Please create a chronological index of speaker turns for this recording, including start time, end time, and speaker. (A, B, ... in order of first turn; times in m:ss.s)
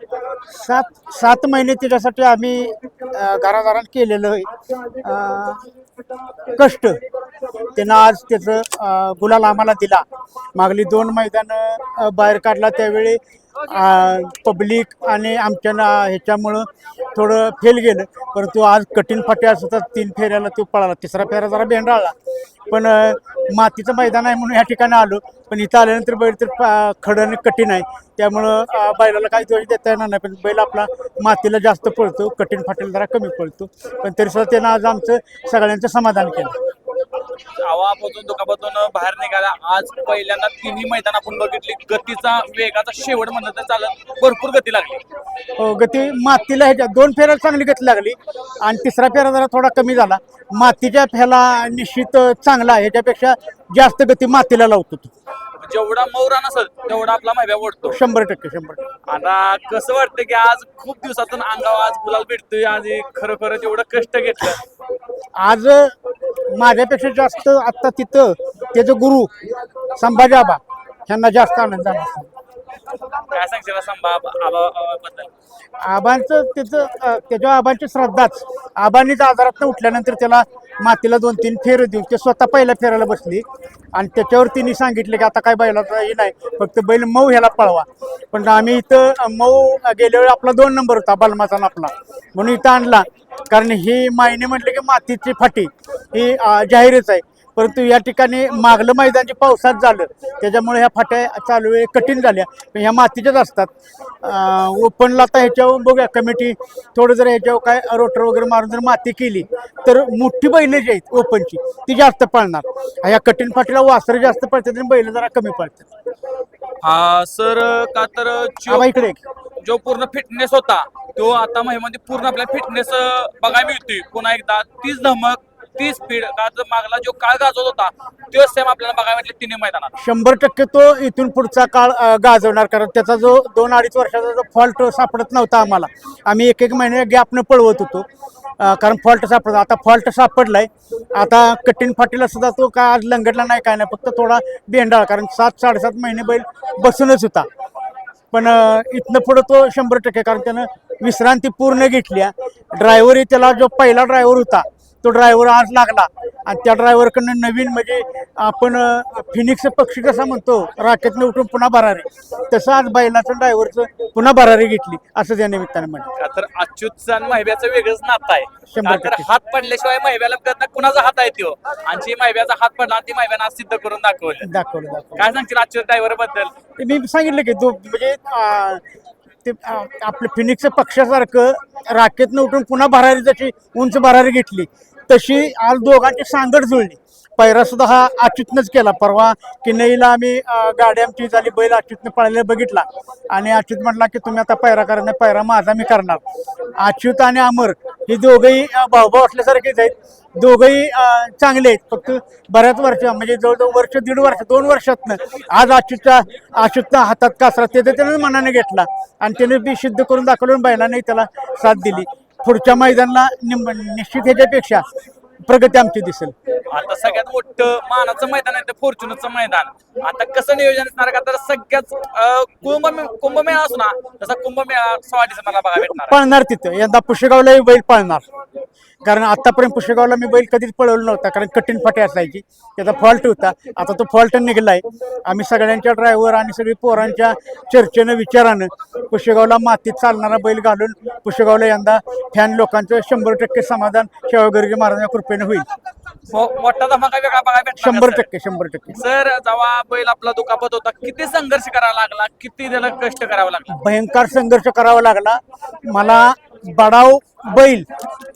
0:00.5-0:05.7 A
0:06.5-0:07.0 A
0:07.8-0:10.0 A
0:10.6-0:22.2 A
0:22.7-0:36.6 A
0:37.4-0:45.0 B
0:45.6-0:55.1 A
0:55.6-0:58.0 B
0:57.9-0:58.8 A
0:59.1-1:04.6 B
1:05.4-1:06.0 A
1:06.5-1:09.4 A
1:09.9-1:12.3 A
1:13.3-1:15.3 B
1:15.8-1:43.7 A
1:44.2-1:55.9 A
1:56.8-1:58.9 B
1:58.7-1:59.2 A
1:59.6-2:09.9 B
2:10.0-2:18.1 A
2:18.6-2:27.5 A
2:28.3-2:46.1 A
2:46.2-2:54.5 B
2:48.7-2:49.3 A
2:54.4-2:55.3 A
2:55.2-2:56.5 B
2:56.8-2:58.8 A
2:59.4-3:16.2 A
3:16.8-3:34.8 A
3:35.4-3:36.4 A
3:36.7-3:46.2 B
3:45.8-3:48.2 A
3:49.0-4:05.7 A
4:06.3-4:08.3 B
4:07.8-4:09.0 A
4:08.9-4:13.8 B
4:13.7-4:17.9 A